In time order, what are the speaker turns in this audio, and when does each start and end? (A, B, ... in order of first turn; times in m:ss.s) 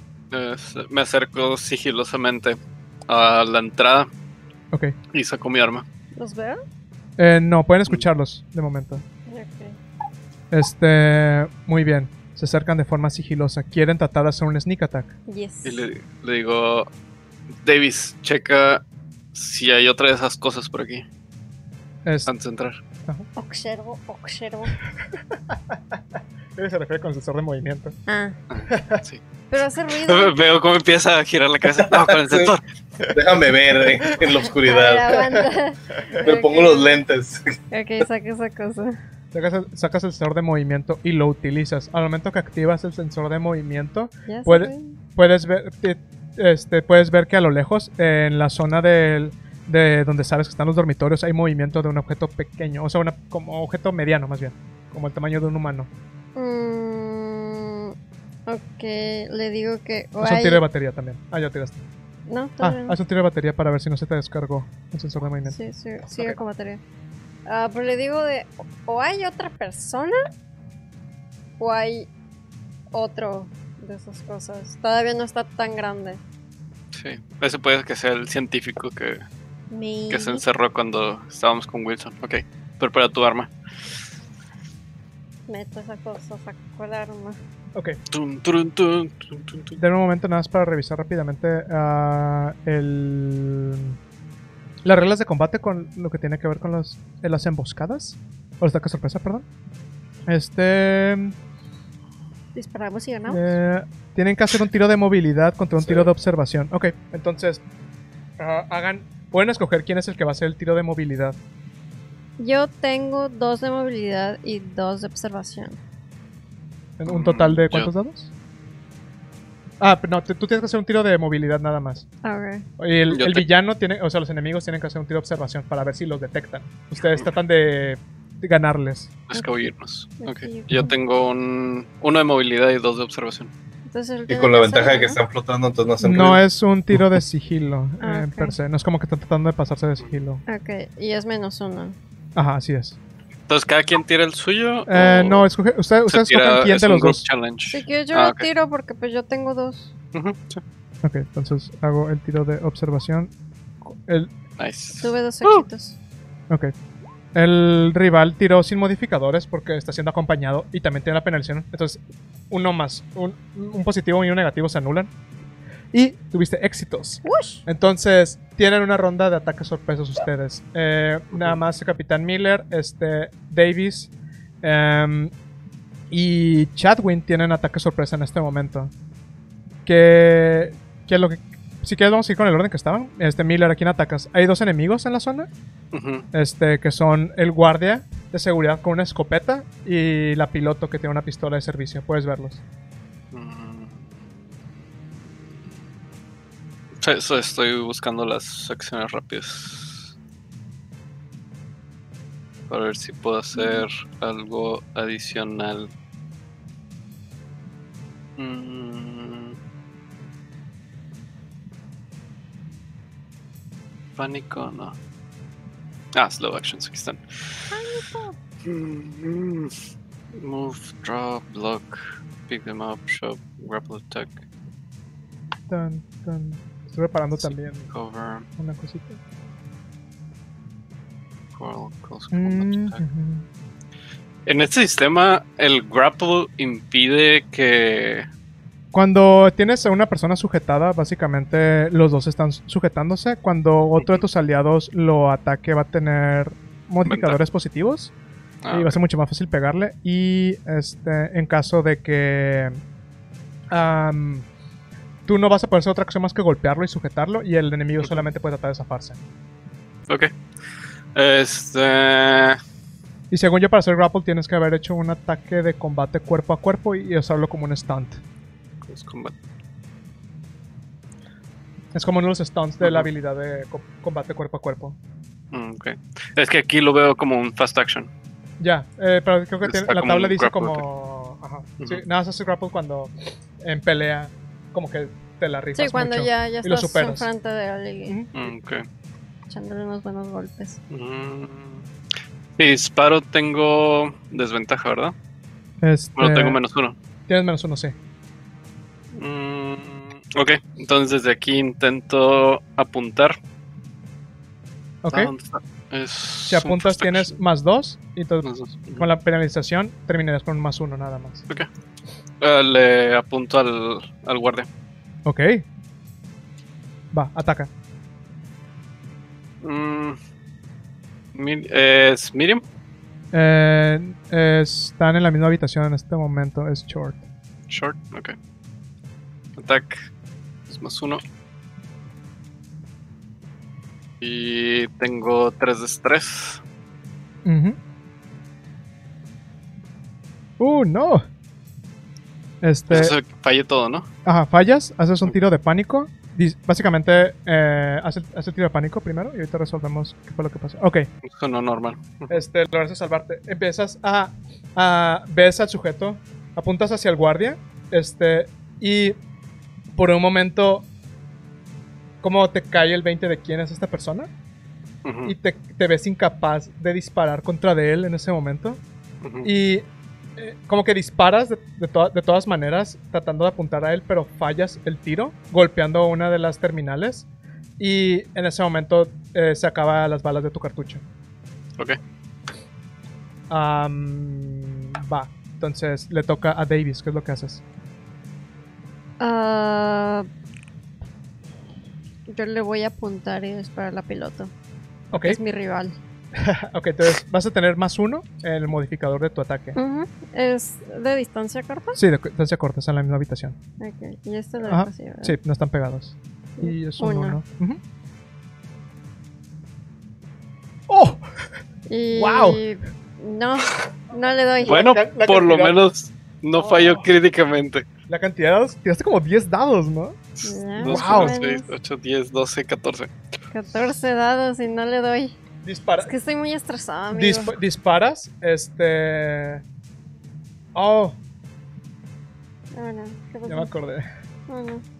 0:00.3-0:04.1 A
0:05.1-0:05.8 A
0:06.2-0:06.6 B
0:07.2-0:09.0 C
0:09.3-0:09.8 B
0:10.5-0:15.1 C
0:15.3-0:15.8 B
0:15.6-0:16.9 A
0:17.6-0:18.8 A
0:19.3-0:21.0 A
0:22.3-0:22.8 A
0:23.4-0:24.8 B
0:26.6-0:28.0 C
0:28.1-0:28.4 B
0:28.5-0:29.2 A
0:28.7-0:29.0 C
0:29.5-0:30.3 B
0:30.0-0:32.6 A
0:31.8-0:32.5 D
0:33.1-0:35.1 D
0:34.6-0:36.9 B
0:35.1-0:35.4 C
0:36.2-0:37.5 D
0:37.7-0:39.0 B
0:39.3-0:55.9 C
0:44.3-0:44.9 B
0:56.3-0:57.9 B
0:58.5-1:00.6 B
1:00.2-1:01.8 C
1:02.3-1:03.0 B
1:02.6-1:05.6 C
1:05.5-1:06.8 B
1:07.4-1:10.2 B
1:11.6-1:12.1 B
1:12.9-1:16.2 B
1:16.9-1:19.2 A
1:19.7-1:20.4 B
1:20.1-1:23.5 A
1:25.5-1:27.4 B
1:28.1-1:29.8 A
1:29.8-1:34.0 C
1:34.8-1:39.4 C
1:40.3-1:41.3 C
1:42.5-1:43.5 B
1:43.3-1:47.6 C
1:48.4-1:51.4 C
1:52.4-1:55.8 B
1:57.0-1:58.3 C
1:57.1-1:57.9 A
1:59.8-2:02.0 C
2:02.2-2:02.7 B
2:02.8-2:09.1 C
2:03.1-2:03.4 A
2:09.3-2:13.5 A
2:10.2-2:10.9 B
2:13.9-2:15.2 B
2:14.3-2:16.4 D
2:16.0-2:20.4 C
2:18.0-2:18.6 B
2:20.5-2:22.0 B
2:22.4-2:23.0 C
2:23.5-2:25.5 A
2:24.9-2:27.2 C
2:26.1-2:28.5 A
2:27.7-2:29.9 B
2:30.1-2:30.6 A
2:31.0-2:33.3 C
2:33.8-2:34.3 C
2:34.6-2:35.7 A
2:35.0-2:36.0 B
2:37.3-2:45.1 C
2:45.9-2:54.1 C
2:47.2-2:47.6 B
2:54.6-2:55.3 C
2:56.1-2:58.9 C
2:59.8-3:05.5 C
3:05.9-3:06.2 A
3:06.3-3:12.6 C
3:13.3-3:14.1 A
3:17.0-3:20.1 A
3:22.7-3:25.9 A
3:23.5-3:23.8 B
3:28.4-3:29.6 A
3:34.2-3:35.0 A
3:36.1-3:37.8 A
3:37.7-3:38.4 B
3:38.6-3:39.7 A
3:40.4-3:44.4 A
3:45.7-3:47.9 C
3:47.4-3:48.4 A
3:48.6-3:49.2 C
3:51.5-3:53.0 A
3:52.3-3:53.4 C
3:54.4-3:58.3 A
3:58.9-4:08.1 C
4:07.0-4:07.4 A
4:08.6-4:09.0 A
4:08.7-4:12.8 C
4:13.7-4:14.4 C
4:15.3-4:19.2 C
4:21.1-4:22.6 A
4:23.3-4:28.2 C
4:28.8-4:29.3 A
4:31.9-4:35.0 C
4:32.8-4:33.1 A
4:35.5-4:38.1 A
4:38.6-4:47.3 C
4:39.6-4:40.8 A
4:45.8-4:48.2 B
4:48.1-4:48.3 C
4:48.3-4:48.8 A
4:49.5-4:50.8 B
4:50.9-4:51.8 A
4:52.6-4:55.1 A
4:55.8-4:56.6 C
4:56.2-4:57.0 A
4:57.3-4:57.9 C
4:59.2-5:03.4 A
5:05.0-5:05.3 C
5:05.1-5:07.3 A
5:06.5-5:11.4 C
5:08.4-5:09.0 A
5:12.4-5:14.7 A
5:15.2-5:15.6 C
5:17.1-5:17.7 C
5:19.6-5:20.2 A
5:21.3-5:22.6 A
5:23.3-5:27.2 C
5:27.7-5:28.4 A
5:29.6-5:30.0 A
5:30.7-5:31.2 A
5:34.2-5:36.6 A
5:37.4-5:37.8 C
5:40.6-5:41.2 C
5:42.6-5:43.2 C
5:42.9-5:44.1 A
5:44.2-5:51.1 C
5:51.2-5:52.4 A
5:52.3-5:59.2 C
6:00.0-6:00.8 C
6:02.2-6:04.3 C
6:05.0-6:05.3 A
6:05.2-6:08.8 C
6:09.2-6:09.5 A
6:09.4-6:09.8 C
6:10.4-6:17.2 C
6:17.8-6:21.0 C
6:23.5-6:27.6 C
6:29.2-6:30.3 B
6:32.3-6:34.5 B
6:35.1-6:35.4 C
6:35.1-6:36.0 B
6:36.4-6:39.8 C
6:39.8-6:42.0 B
6:41.9-6:43.6 C
6:43.8-6:45.3 B
6:44.6-6:47.8 C
6:46.6-6:47.4 B
6:50.9-6:51.2 C
6:51.9-6:54.8 B
6:52.1-6:52.6 C
6:54.6-6:55.8 C
6:54.6-6:57.8 A
6:56.6-6:57.1 B
6:58.1-7:00.2 C
7:00.4-7:03.1 A
7:00.4-7:01.7 B
7:00.8-7:01.4 C
7:03.5-7:05.3 B
7:05.6-7:06.1 C
7:06.0-7:07.6 B
7:07.1-7:09.6 C
7:10.7-7:11.2 C
7:12.7-7:13.7 B
7:13.4-7:14.0 C
7:14.5-7:14.8 B